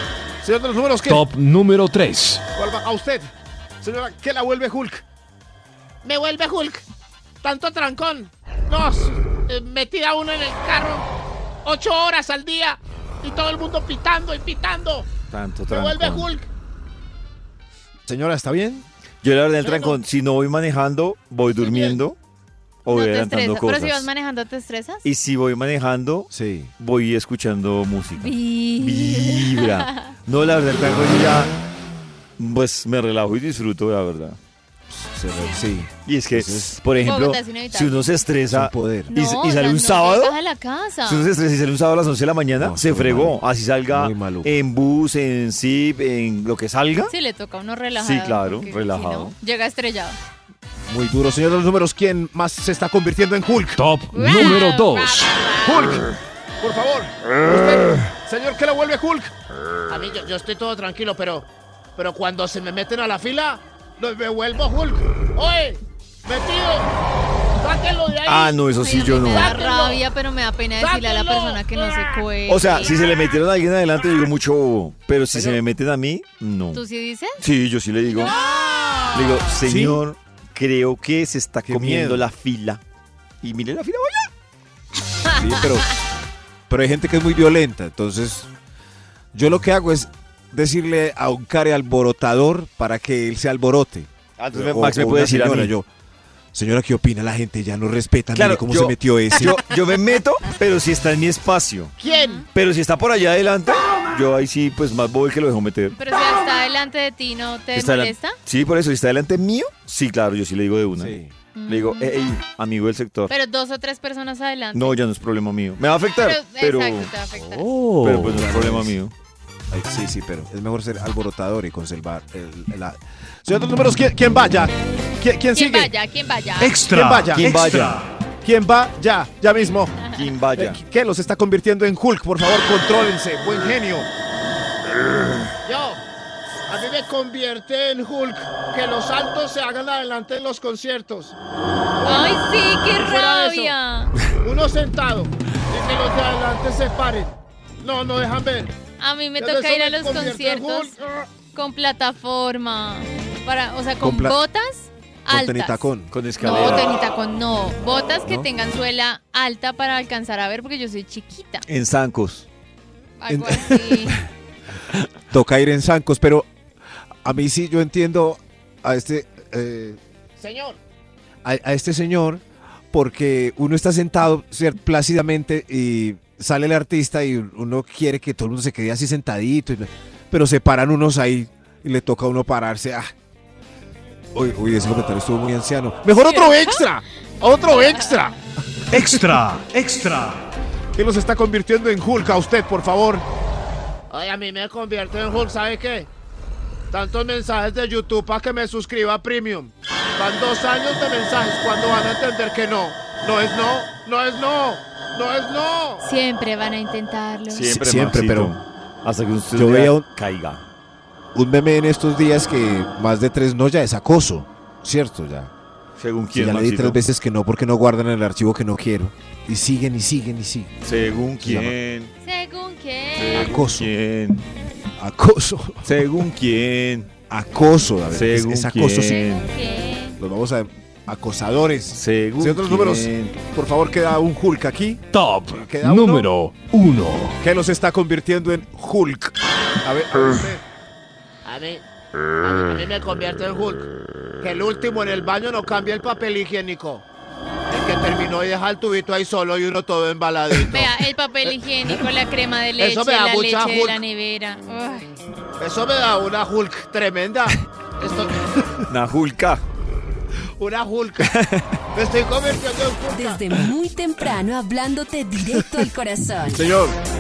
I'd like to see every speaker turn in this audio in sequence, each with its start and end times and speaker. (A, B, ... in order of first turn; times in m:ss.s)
0:00.4-0:01.2 A
0:01.0-0:02.4 B
0:02.6-0:03.3 A
0:03.8-0:04.2 A
0:03.8-0:05.0 C
0:06.0-0:06.8 A
0:07.4-0:11.1 A
0:11.6-0:15.1 A
0:15.3-0:16.3 D
0:15.7-0:16.5 A
0:18.1-0:18.9 C
0:19.2-0:22.2 D
0:19.6-0:20.0 A
0:21.6-0:22.0 A
0:22.8-0:24.1 D
0:22.9-0:25.0 E
0:25.0-0:31.6 D
0:26.3-0:26.7 C
0:28.2-0:30.1 E
0:32.4-0:34.4 D
0:34.9-0:36.8 C
0:35.3-0:35.7 E
0:36.0-0:40.4 D
0:36.9-0:38.2 E
0:38.5-0:39.1 C
0:39.1-0:41.3 E
0:41.0-0:47.1 D
0:42.6-0:44.6 C
0:47.1-0:50.2 E
0:48.0-0:49.4 D
0:50.9-0:53.8 C
0:53.8-0:55.4 B
0:54.1-0:56.0 E
0:55.6-0:56.1 C
0:56.6-0:58.8 A
0:57.4-0:59.3 C
0:59.9-1:06.9 A
1:07.6-1:10.0 A
1:08.3-1:09.5 D
1:08.7-1:13.0 E
1:10.8-1:12.2 A
1:12.5-1:16.8 D
1:16.7-1:17.4 E
1:17.4-1:18.3 D
1:18.0-1:18.4 E
1:19.1-1:22.8 D
1:19.6-1:20.0 C
1:21.6-1:22.2 C
1:23.4-1:24.3 D
1:25.3-1:25.9 E
1:25.4-1:28.5 C
1:29.3-1:35.9 C
1:34.4-1:35.7 D
1:36.5-1:39.6 C
1:38.3-1:42.0 D
1:42.0-1:42.4 A
1:42.0-1:42.5 E
1:42.5-1:46.0 D
1:45.9-1:48.4 E
1:47.7-1:51.2 D
1:51.0-1:51.3 C
1:51.6-1:52.2 E
1:51.7-1:53.3 D
1:53.3-1:55.0 E
1:54.7-1:57.1 D
1:56.2-1:57.8 E
1:57.5-1:58.3 B
1:57.8-1:59.0 C
1:58.0-1:59.1 D
1:59.7-2:05.9 C
2:05.5-2:06.9 E
2:06.6-2:08.1 B
2:06.9-2:07.7 C
2:07.4-2:08.0 D
2:08.4-2:09.9 C
2:10.0-2:10.3 E
2:10.1-2:10.8 D
2:10.6-2:14.1 C
2:15.7-2:16.0 A
2:16.7-2:21.4 A
2:22.0-2:22.4 A
2:22.0-2:24.1 E
2:22.9-2:23.7 A
2:24.4-2:28.7 A
2:29.0-2:31.0 E
2:29.4-2:31.2 A
2:31.5-2:41.6 E
2:34.0-2:34.4 C
2:35.3-2:36.1 C
2:36.1-2:37.0 D
2:41.7-2:42.5 D
2:43.2-2:44.2 E
2:43.3-2:44.2 C
2:45.3-2:46.5 C
2:47.2-2:50.0 C
2:50.4-2:50.8 A
2:51.4-3:03.1 C
3:04.3-3:07.0 C
3:06.2-3:06.9 E
3:07.4-3:08.3 A
3:07.4-3:08.3 E
3:08.9-3:10.5 B
3:11.0-3:13.2 C
3:14.1-3:16.1 A
3:16.9-3:26.0 A
3:26.0-3:27.7 E
3:27.5-3:30.7 D
3:27.6-3:28.6 C
3:29.5-3:30.1 C
3:31.3-3:35.5 C
3:36.0-3:37.0 D
3:36.3-3:40.7 C
3:40.8-3:42.1 D
3:41.4-3:41.8 C
3:42.2-3:43.4 E
3:43.2-3:44.4 D
3:43.3-3:43.9 C
3:45.0-3:46.0 C
3:45.8-3:47.1 D
3:47.3-3:49.2 C
3:48.1-3:49.5 D
3:49.0-3:50.2 E
3:50.2-3:56.3 C
3:51.9-3:53.4 D
3:55.1-3:57.4 B
3:57.4-4:00.6 C
4:01.4-4:01.8 A
4:02.4-4:03.9 A
4:04.4-4:07.0 A
4:07.7-4:11.6 A
4:10.6-4:15.2 E
4:12.8-4:14.0 A
4:15.6-4:18.5 A
4:18.9-4:19.6 D
4:20.6-4:21.3 A
4:21.2-4:21.7 D
4:21.9-4:23.6 A
4:23.1-4:26.7 F
4:26.5-4:27.0 C